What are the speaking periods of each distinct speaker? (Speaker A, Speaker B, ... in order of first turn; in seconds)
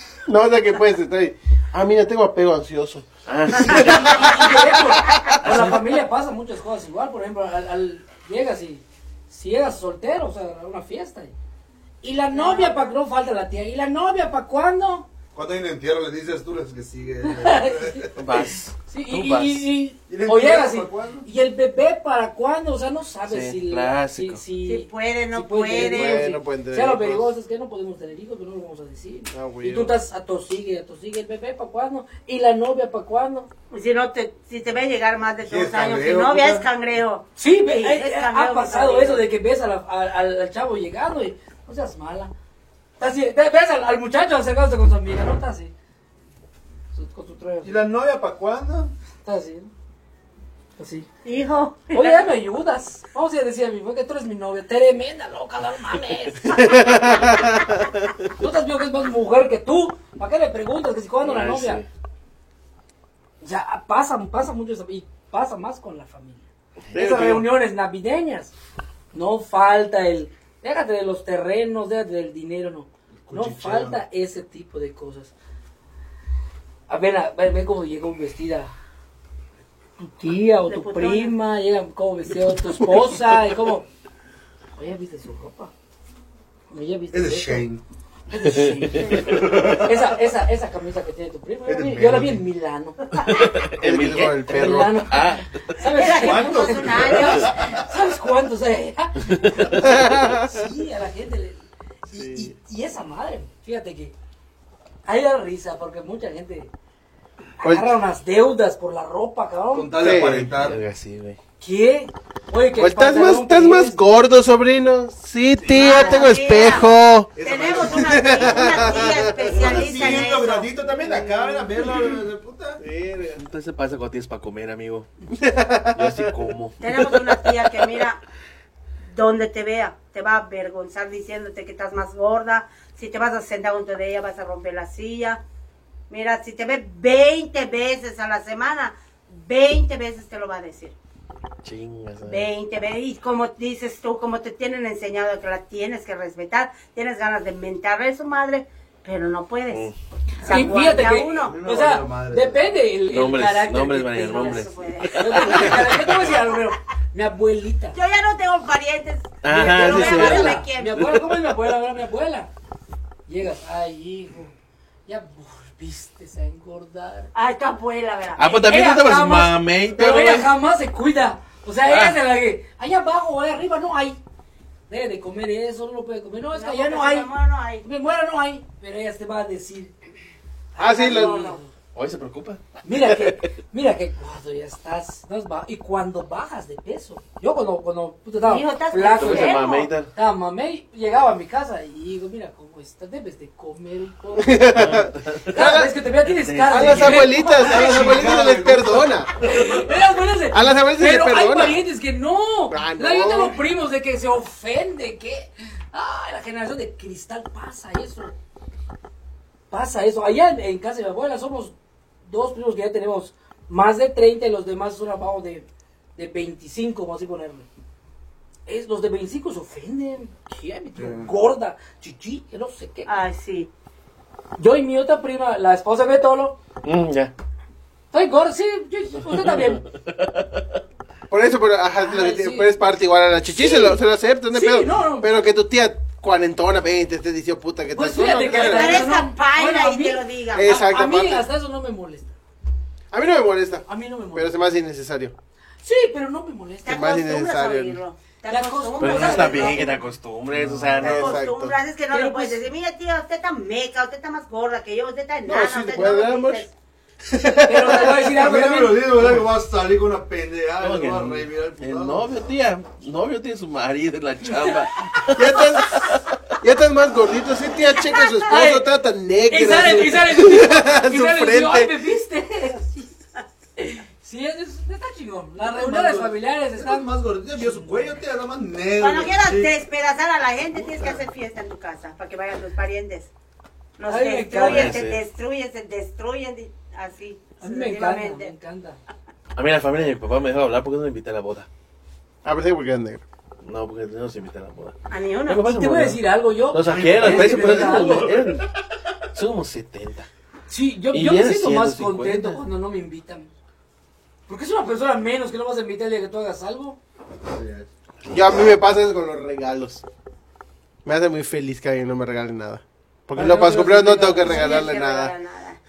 Speaker A: 0.2-5.7, 25.7-27.3, 29.3-30.0, 56.5-58.1, 66.9-67.4, 93.8-94.9, 99.8-100.7, 102.1-102.5, 107.6-107.9, 110.0-110.5, 112.8-117.3, 117.8-120.2, 121.0-122.1, 122.8-123.4, 125.3-126.3, 126.8-127.9, 180.8-181.5, 194.4-195.9, 196.7-199.3, 200.5-201.8, 202.7-203.6, 231.3-239.2, 240.5-241.4, 243.1-245.3, 246.9-248.0, 251.0-251.8, 255.4-256.6, 257.2-258.3, 265.3-271.9, 292.4-293.2, 308.3-310.0, 311.0-315.3
Speaker B: 3.2-4.2, 5.4-5.8, 18.1-19.6, 23.3-24.4, 61.2-61.9, 88.4-89.5, 93.3-95.5, 99.2-100.0, 110.1-111.4, 118.3-119.1, 123.4-125.1, 125.9-126.8, 141.6-142.5, 149.7-149.9, 153.1-156.2, 159.4-160.7, 168.4-170.5, 171.9-172.2, 181.9-183.1, 189.1-190.1, 194.7-195.5, 196.2-197.3, 226.8-227.3, 229.3-230.8, 249.0-251.4, 260.8-266.3, 284.6-285.2, 289.6-291.7, 293.6-294.9, 295.5-298.6, 299.3-300.3, 301.1-302.6
Speaker C: 3.7-11.3, 12.0-15.1, 17.2-18.1, 18.9-33.5, 37.4-42.3, 43.0-45.7, 46.9-47.8, 49.2-49.7, 50.8-51.1, 51.9-56.7, 58.4-61.8, 63.4-68.5, 69.1-75.3, 76.9-78.7, 80.0-83.9, 84.8-85.7, 86.7-87.6, 88.3-93.5, 94.5-104.1, 105.0-106.7, 107.6-110.0, 111.6-114.0, 150.4-157.9, 159.5-162.5, 163.3-164.5, 165.1-167.3, 168.5-174.2, 174.9-177.3, 177.8-179.9, 180.7-181.7, 182.8-198.3, 199.4-208.3, 209.7-217.7, 218.7-223.2, 224.6-226.6, 228.1-229.8, 231.9-232.7, 233.5-235.5, 237.9-242.3, 243.9-244.6, 245.8-247.1, 248.5-250.0, 252.1-252.7, 257.6-259.1, 268.4-268.9, 269.5-273.2, 273.8-278.2, 284.1-285.0, 287.6-289.0, 295.6-298.3, 300.7-303.5, 304.5-307.0, 313.3-314.9
Speaker D: 12.3-12.8, 24.6-26.3, 33.7-39.2, 51.2-52.3, 80.7-81.3, 95.8-97.6, 115.7-116.9, 117.4-120.7, 126.8-128.2, 129.1-135.4, 136.1-140.9, 142.2-149.9, 150.4-151.6, 154.1-156.3, 157.9-161.2, 167.3-168.7, 176.5-177.8, 180.8-181.6, 188.4-189.9, 223.1-223.7, 238.5-240.7, 246.8-250.0, 251.0-256.7, 278.9-283.3, 284.0-288.5, 295.1-295.7, 314.4-315.8
Speaker E: 15.3-18.1, 20.1-21.2, 35.4-36.7, 47.6-48.9, 73.2-74.0, 87.1-87.8, 89.1-89.9, 91.7-92.4, 96.0-97.8, 109.7-110.8, 115.6-116.3, 117.3-122.8, 150.9-152.8, 197.5-199.2, 220.9-221.3, 250.5-251.1, 258.3-262.3, 275.6-279.7, 280.8-281.2, 296.8-298.5, 307.5-307.9